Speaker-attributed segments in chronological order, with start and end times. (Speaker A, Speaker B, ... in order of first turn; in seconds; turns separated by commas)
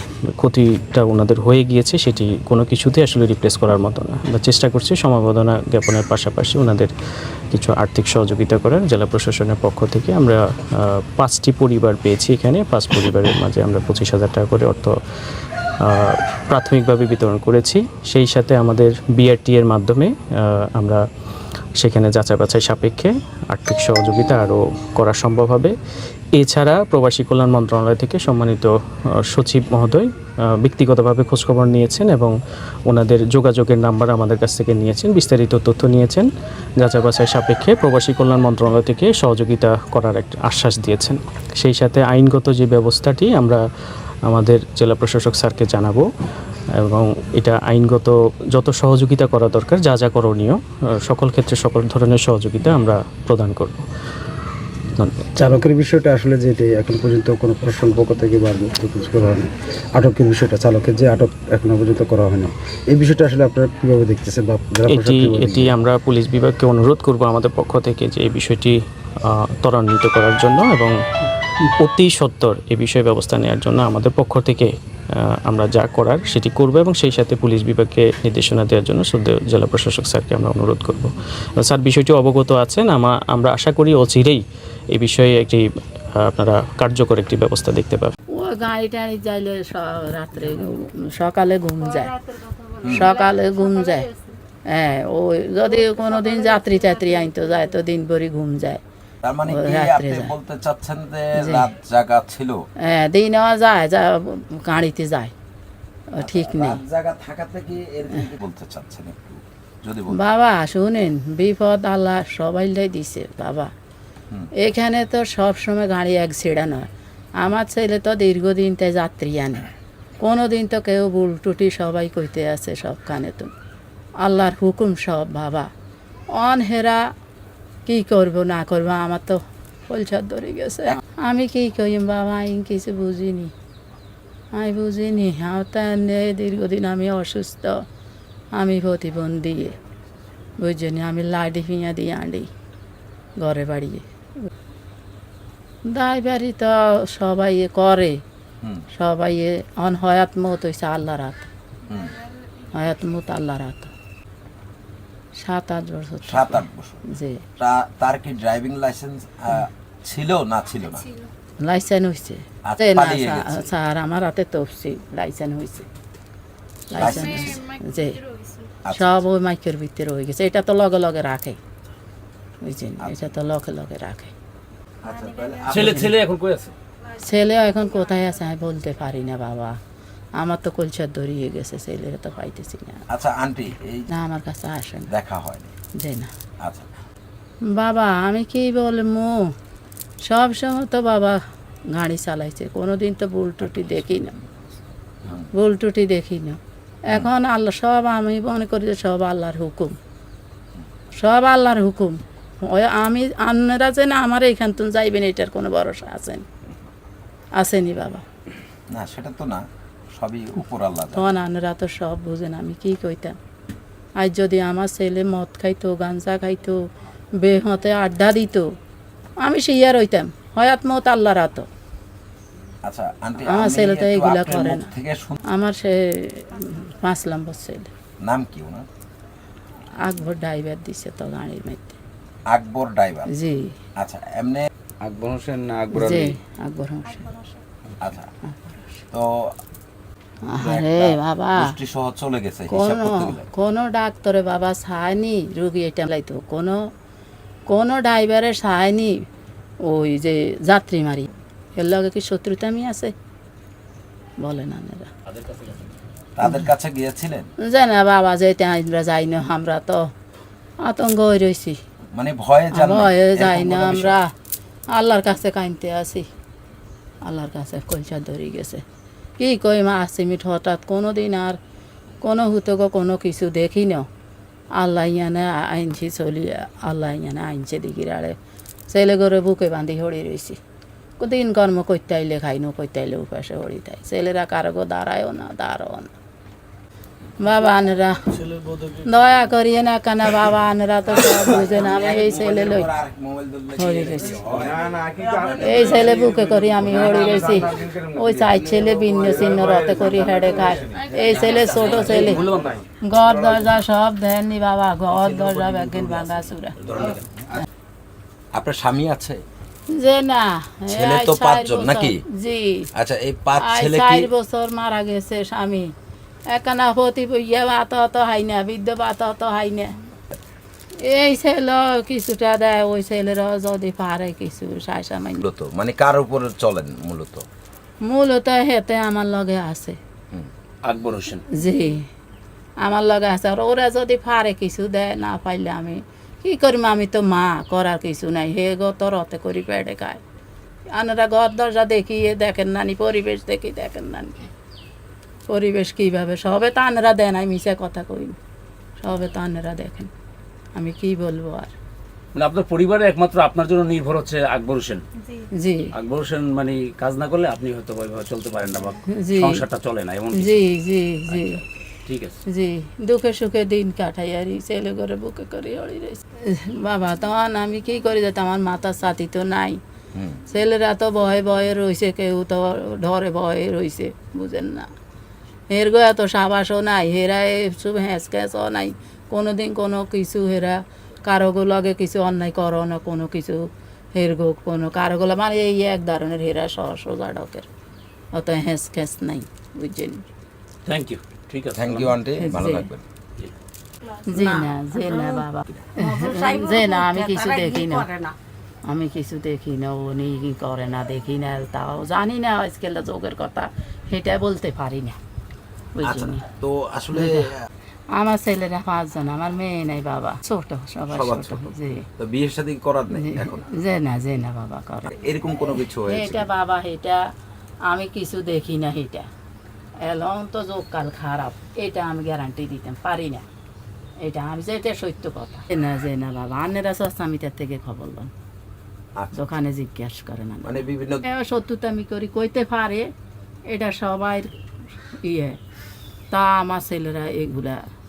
Speaker A: 0.4-6.9, Speaker A: 7.5-14.9, Speaker A: 15.8-21.0, Speaker A: 21.8-25.7, Speaker A: 26.4-28.7, Speaker A: 29.2-32.3, Speaker A: 32.9-36.3, Speaker A: 36.8-43.6, Speaker A: 44.3-46.0, Speaker A: 46.8-53.8, Speaker A: 55.0-55.4, Speaker B: 55.4-65.7, Speaker A: 64.9-70.9, Speaker A: 71.8-85.6, Speaker A: 86.2-88.1, Speaker C: 88.4-92.1, Speaker D: 92.8-93.1, Speaker C: 92.9-94.1, Speaker C: 94.7-98.8, Speaker D: 99.2-102.6, Speaker C: 99.5-100.3, Speaker C: 101.4-101.7, Speaker C: 102.9-105.3, Speaker C: 106.1-106.8, Speaker D: 106.2-110.2, Speaker C: 110.2-113.7, Speaker C: 114.6-116.9, Speaker C: 117.4-119.6, Speaker C: 120.2-123.5, Speaker C: 124.2-125.7, Speaker C: 126.3-127.0, Speaker C: 127.8-133.5, Speaker C: 134.6-137.7, Speaker C: 138.6-139.7, Speaker C: 140.6-142.5, Speaker C: 143.4-144.0, Speaker C: 145.9-148.2, Speaker C: 149.0-151.4, Speaker D: 151.9-152.2, Speaker C: 152.7-153.9, Speaker C: 155.4-157.4, Speaker D: 156.3-157.0, Speaker D: 157.6-161.1, Speaker C: 161.6-165.9, Speaker D: 162.6-163.7, Speaker C: 166.9-168.2, Speaker D: 167.0-167.6, Speaker D: 168.8-169.2, Speaker C: 168.9-171.6, Speaker C: 172.6-174.3, Speaker D: 173.0-173.3, Speaker D: 175.0-176.2, Speaker E: 175.7-176.7, Speaker C: 175.8-176.1, Speaker C: 177.2-179.7, Speaker C: 180.4-183.0, Speaker D: 183.1-184.1, Speaker C: 184.1-185.1, Speaker D: 185.1-185.7, Speaker C: 186.0-186.3, Speaker D: 186.6-186.9, Speaker C: 187.7-189.5, Speaker C: 190.3-191.4, Speaker C: 191.9-194.3, Speaker D: 193.7-194.4, Speaker C: 195.5-196.6, Speaker C: 197.1-199.9, Speaker C: 201.2-206.4, Speaker C: 207.6-208.2, Speaker D: 208.9-211.3, Speaker C: 211.1-213.3, Speaker C: 214.2-216.8, Speaker C: 217.4-218.6, Speaker C: 219.4-221.7, Speaker D: 222.8-225.4, Speaker C: 223.5-224.9, Speaker C: 225.5-227.9, Speaker D: 228.2-228.8, Speaker C: 230.0-232.0, Speaker D: 232.5-233.3, Speaker C: 233.3-233.7, Speaker D: 234.0-234.7, Speaker C: 235.9-237.3, Speaker D: 238.0-238.3, Speaker C: 238.5-238.8, Speaker C: 240.5-241.7, Speaker D: 240.6-243.4, Speaker C: 242.7-246.8, Speaker C: 247.7-249.1, Speaker C: 249.8-253.1, Speaker C: 254.4-255.1, Speaker E: 255.3-255.7, Speaker D: 256.4-257.5, Speaker C: 257.6-260.1, Speaker C: 260.8-261.8, Speaker D: 262.1-264.2, Speaker C: 262.7-264.3, Speaker C: 264.9-266.2, Speaker C: 267.2-268.8, Speaker C: 269.4-271.6, Speaker C: 272.2-274.1, Speaker C: 274.8-278.4, Speaker C: 278.9-280.6, Speaker C: 281.2-286.1, Speaker C: 287.4-288.1, Speaker C: 289.0-292.9, Speaker D: 291.2-296.2, Speaker C: 293.8-294.4, Speaker C: 295.6-302.5, Speaker D: 301.4-302.3, Speaker E: 301.8-302.8, Speaker C: 303.0-306.8, Speaker E: 305.2-306.2, Speaker E: 306.8-307.1, Speaker D: 306.9-307.6, Speaker D: 308.5-309.4, Speaker C: 309.9-312.9, Speaker D: 310.9-312.2, Speaker D: 312.9-314.3, Speaker C: 313.6-315.9, Speaker C: 316.5-319.9, Speaker C: 321.1-325.4, Speaker D: 325.4-327.4, Speaker C: 328.0-330.0, Speaker E: 330.8-331.4, Speaker C: 331.6-332.0, Speaker C: 332.8-340.2, Speaker C: 340.9-344.4, Speaker C: 345.5-348.4, Speaker C: 349.0-350.1, Speaker C: 350.8-351.7, Speaker E: 352.3-355.0, Speaker C: 355.6-355.9, Speaker E: 355.9-360.6, Speaker C: 359.1-359.6, Speaker C: 360.3-361.6, Speaker E: 361.3-362.3, Speaker C: 362.5-369.8, Speaker C: 370.5-374.9, Speaker C: 375.7-387.7, Speaker C: 388.3-390.2, Speaker E: 390.9-392.1, Speaker D: 391.7-393.0, Speaker C: 392.4-392.9, Speaker C: 394.3-398.1, Speaker E: 394.3-395.4, Speaker E: 396.0-398.3, Speaker C: 398.9-405.1, Speaker C: 405.9-406.4, Speaker D: 406.0-407.5, Speaker C: 407.1-407.5, Speaker C: 408.2-412.1, Speaker D: 411.1-413.6, Speaker C: 413.1-415.1, Speaker D: 415.1-416.5, Speaker C: 415.7-417.2, Speaker C: 417.9-419.3, Speaker C: 420.0-423.4, Speaker C: 424.2-428.3, Speaker C: 429.3-433.0, Speaker D: 430.6-431.2, Speaker C: 433.7-434.5, Speaker C: 435.3-435.6, Speaker C: 436.3-437.8